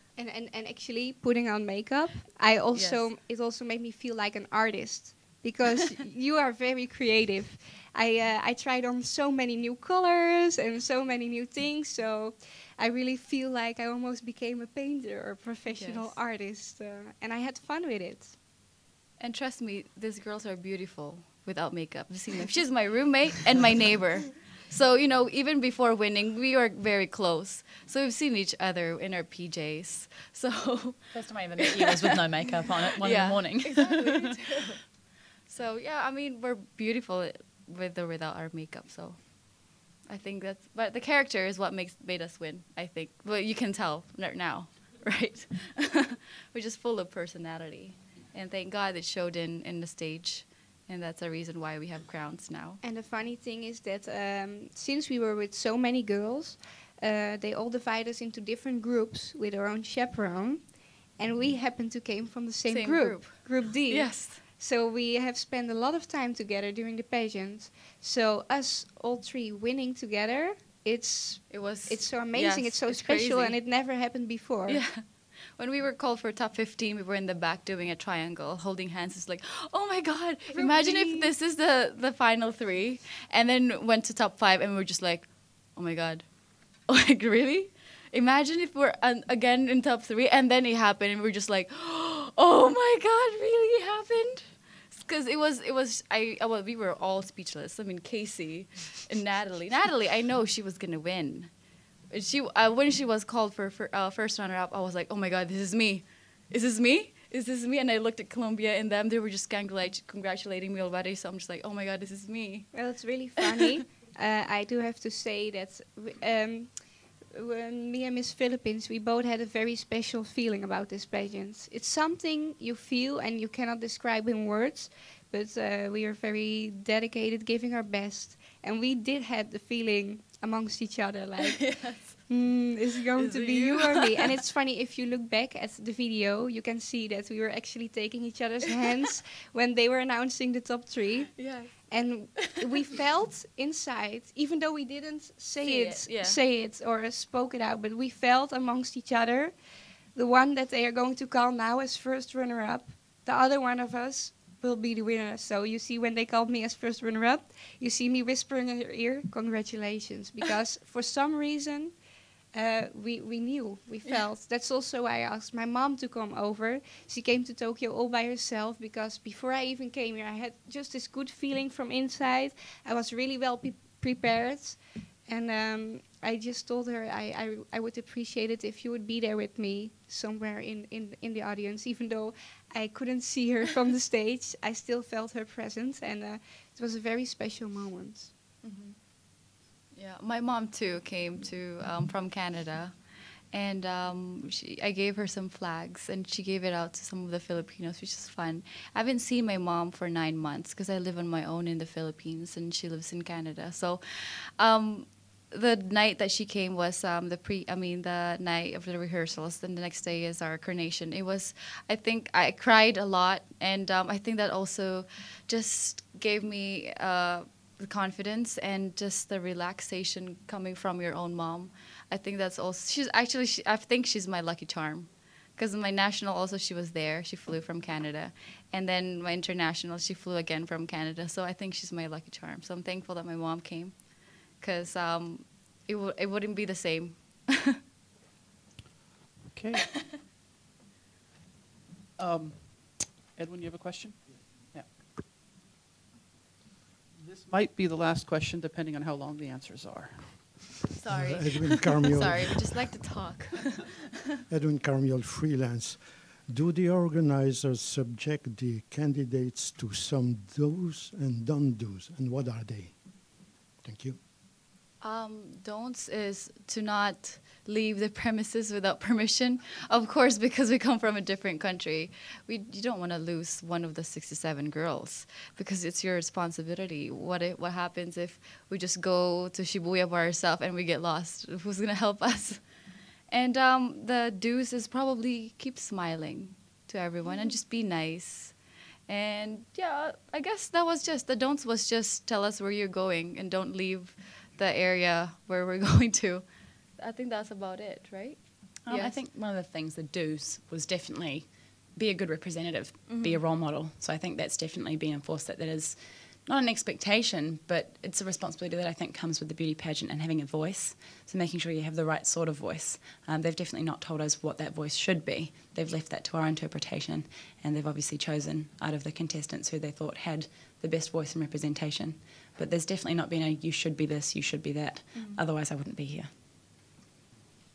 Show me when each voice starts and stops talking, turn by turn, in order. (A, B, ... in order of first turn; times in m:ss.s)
0:00.2-0:18.4 A
0:02.7-0:03.1 B
0:15.7-0:16.2 B
0:19.2-0:31.1 B
0:31.1-0:34.3 C
0:31.7-0:32.1 B
0:33.0-0:34.8 B
0:35.5-0:52.8 B
0:52.8-1:14.8 A
1:02.7-1:04.4 B
1:11.5-1:13.6 B
1:14.7-1:41.5 B
1:20.5-1:21.3 A
1:42.1-1:52.7 B
1:52.7-2:29.5 A
2:11.4-2:12.3 B
2:13.1-2:14.4 B
2:21.4-2:22.6 B
2:25.6-2:26.4 B
2:30.2-2:42.0 A
2:42.5-3:08.3 A
3:08.6-3:09.3 B
3:09.9-3:13.0 B
3:13.5-3:57.8 B
3:59.5-3:59.9 D
4:02.2-4:05.0 D
4:07.2-4:10.8 D
4:11.0-4:14.0 B
4:11.1-4:12.7 E
4:14.5-4:24.2 E
4:25.0-4:42.6 B
4:43.3-4:48.6 B
4:49.1-4:56.4 B
4:57.0-4:59.2 B
4:58.8-5:26.3 C
5:03.1-5:03.4 B